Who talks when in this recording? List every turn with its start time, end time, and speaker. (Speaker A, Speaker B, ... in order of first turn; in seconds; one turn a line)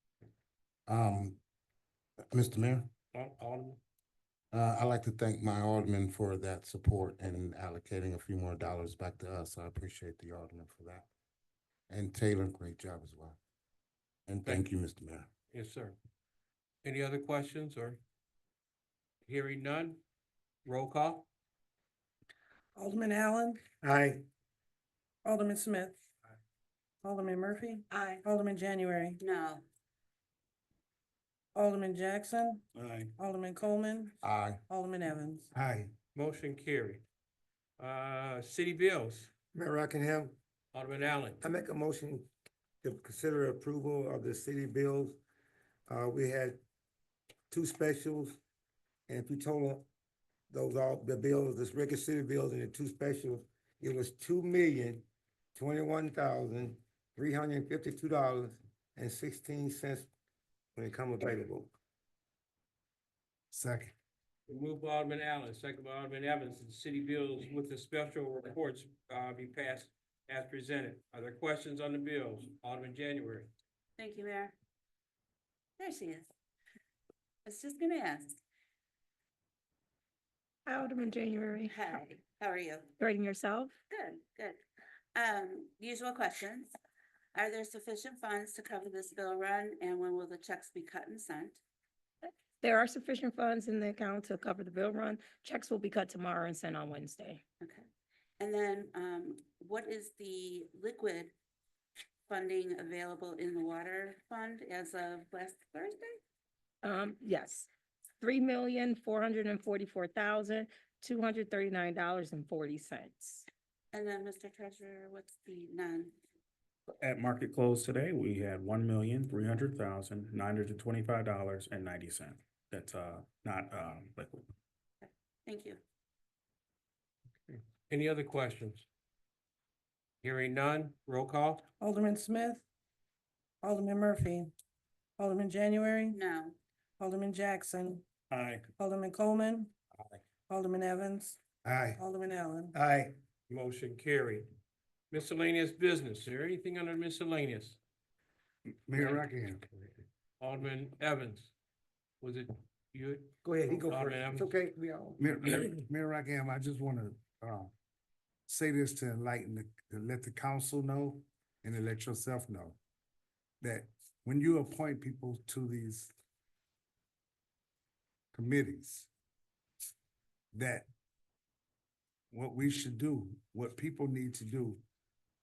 Speaker A: 0.9-1.4
Speaker A: 2.3-2.9
Speaker B: 3.1-3.8
Speaker A: 4.5-11.1
Speaker A: 11.9-13.4
Speaker A: 14.3-15.3
Speaker B: 15.5-15.9
Speaker B: 16.8-18.0
Speaker B: 19.2-20.0
Speaker B: 20.6-21.3
Speaker C: 22.8-23.6
Speaker D: 23.8-24.2
Speaker C: 25.2-26.0
Speaker C: 27.0-29.2
Speaker E: 29.2-29.6
Speaker C: 31.5-32.6
Speaker F: 32.8-33.1
Speaker C: 33.2-35.5
Speaker A: 34.2-34.6
Speaker G: 35.5-35.9
Speaker B: 36.1-37.0
Speaker B: 37.8-39.3
Speaker D: 39.5-40.4
Speaker B: 40.7-41.4
Speaker D: 41.4-42.3
Speaker D: 42.8-45.2
Speaker D: 45.9-46.6
Speaker D: 47.5-48.4
Speaker D: 49.1-49.9
Speaker D: 50.5-60.1
Speaker D: 60.8-61.7
Speaker G: 63.5-63.9
Speaker B: 64.5-73.5
Speaker E: 74.0-74.5
Speaker E: 75.8-76.3
Speaker E: 77.5-78.4
Speaker H: 80.7-81.7
Speaker E: 81.7-82.9
Speaker H: 83.0-83.7
Speaker E: 83.9-84.6
Speaker E: 85.1-86.7
Speaker E: 87.3-91.6
Speaker H: 92.2-97.4
Speaker E: 98.4-101.3
Speaker E: 102.3-106.2
Speaker H: 106.8-107.7
Speaker H: 108.2-113.5
Speaker E: 113.9-116.1
Speaker F: 117.0-124.4
Speaker E: 125.0-125.8
Speaker B: 127.5-128.8
Speaker B: 130.2-131.7
Speaker C: 131.8-132.6
Speaker C: 133.6-134.5
Speaker C: 135.2-136.2
Speaker E: 136.1-136.6
Speaker C: 137.0-138.0
Speaker F: 138.3-138.7
Speaker C: 138.8-139.7
Speaker C: 140.5-141.4
Speaker G: 141.6-142.0
Speaker C: 142.0-142.7
Speaker D: 142.7-143.2
Speaker B: 143.5-144.5
Speaker B: 145.1-147.8
Speaker G: 148.8-149.7
Speaker B: 148.9-149.3
Speaker B: 150.4-151.5
Speaker B: 152.2-154.5
Speaker D: 153.4-155.2
Speaker G: 155.2-157.7
Speaker G: 158.5-162.8
Speaker G: 163.6-166.1
Speaker G: 168.3-169.1
Speaker G: 170.5-170.8
Speaker G: 172.3-174.8